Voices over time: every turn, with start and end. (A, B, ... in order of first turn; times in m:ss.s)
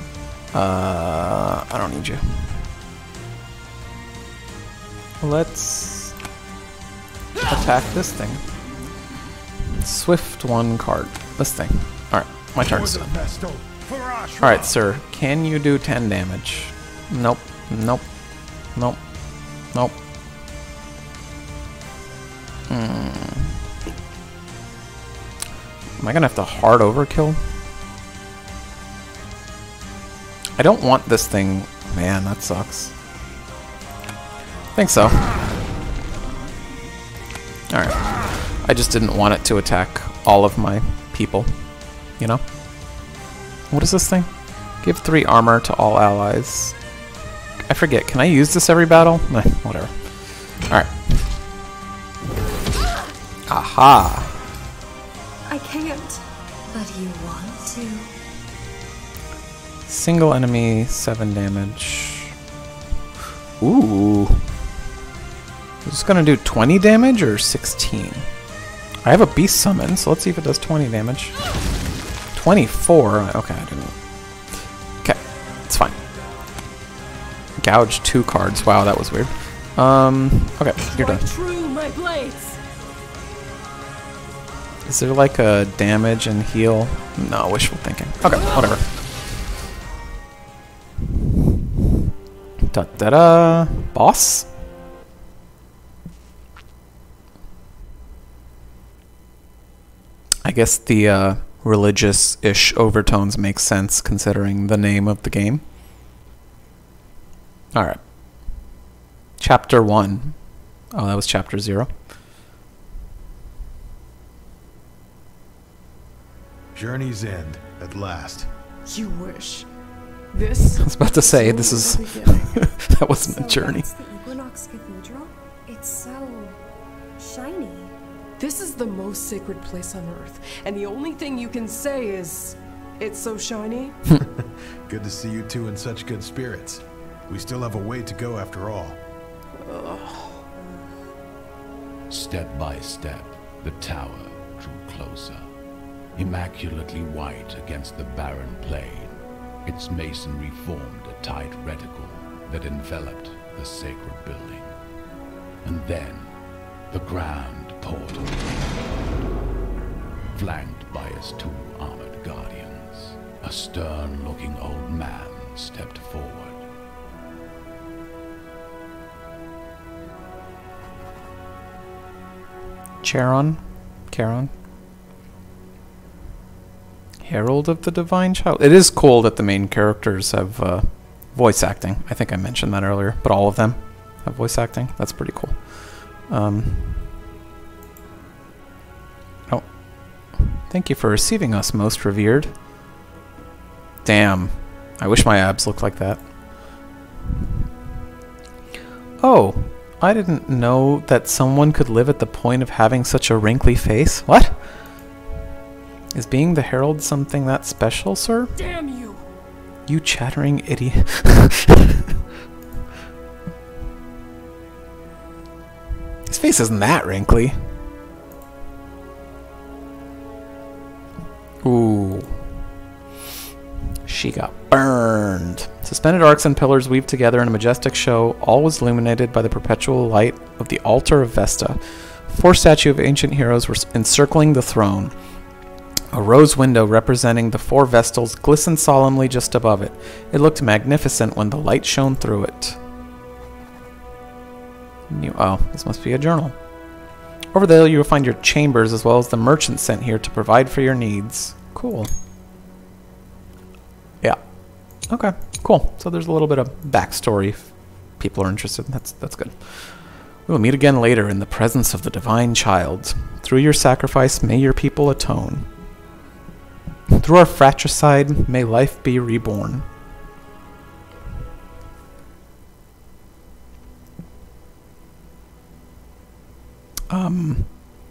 0:00.5-0:02.6 A
0:05.2-0:06.2 A
0:07.5-0:08.4 A
0:09.7-0:13.2 A
0:12.6-0:14.8 B
0:14.4-0:18.1 A
0:18.7-0:19.0 A
0:22.7-0:23.6 A
0:26.0-0:27.4 A
0:30.6-0:32.9 A
0:34.8-0:35.4 A
0:37.7-0:41.6 A
0:43.7-0:46.8 A
0:47.7-0:51.2 A
0:53.5-0:54.4 A
0:55.5-0:58.1 C
0:59.9-1:02.4 A
1:03.6-1:04.5 A
1:05.8-1:08.3 A
1:09.0-1:11.3 A
1:12.3-1:14.0 A
1:15.0-1:16.0 A
1:17.6-1:21.2 A
1:20.8-1:22.6 D
1:24.9-1:28.9 A
1:32.7-1:34.5 A
1:40.4-1:45.6 A
1:47.7-1:48.0 A
1:49.4-1:50.4 A
1:50.9-1:51.9 A
1:56.7-1:58.5 B
1:58.9-1:59.7 D
2:00.3-2:02.7 D
2:00.8-2:03.9 A
2:03.2-2:06.6 C
2:07.2-2:07.9 C
2:08.4-2:14.0 D
2:14.2-2:19.0 B
2:19.6-2:20.5 D
2:22.1-2:25.5 E
2:26.2-2:34.7 E
2:35.6-2:36.3 E
2:36.9-2:38.9 E
2:40.3-2:46.6 E
2:53.0-2:54.5 A
2:57.2-3:05.6 A
3:06.3-3:07.1 A
3:10.4-3:12.5 A
3:14.0-3:16.2 A
3:19.2-3:24.6 A
3:26.1-3:28.5 A
3:28.6-3:29.2 D
3:29.9-3:32.1 A
3:36.3-3:37.6 A
3:41.6-3:42.4 A
3:44.1-3:55.1 A
3:56.1-4:02.8 A
4:05.1-4:06.6 A
4:07.5-4:12.1 A
4:15.1-4:20.0 A
4:20.5-4:25.7 A
4:27.1-4:29.9 A
4:37.1-4:37.7 A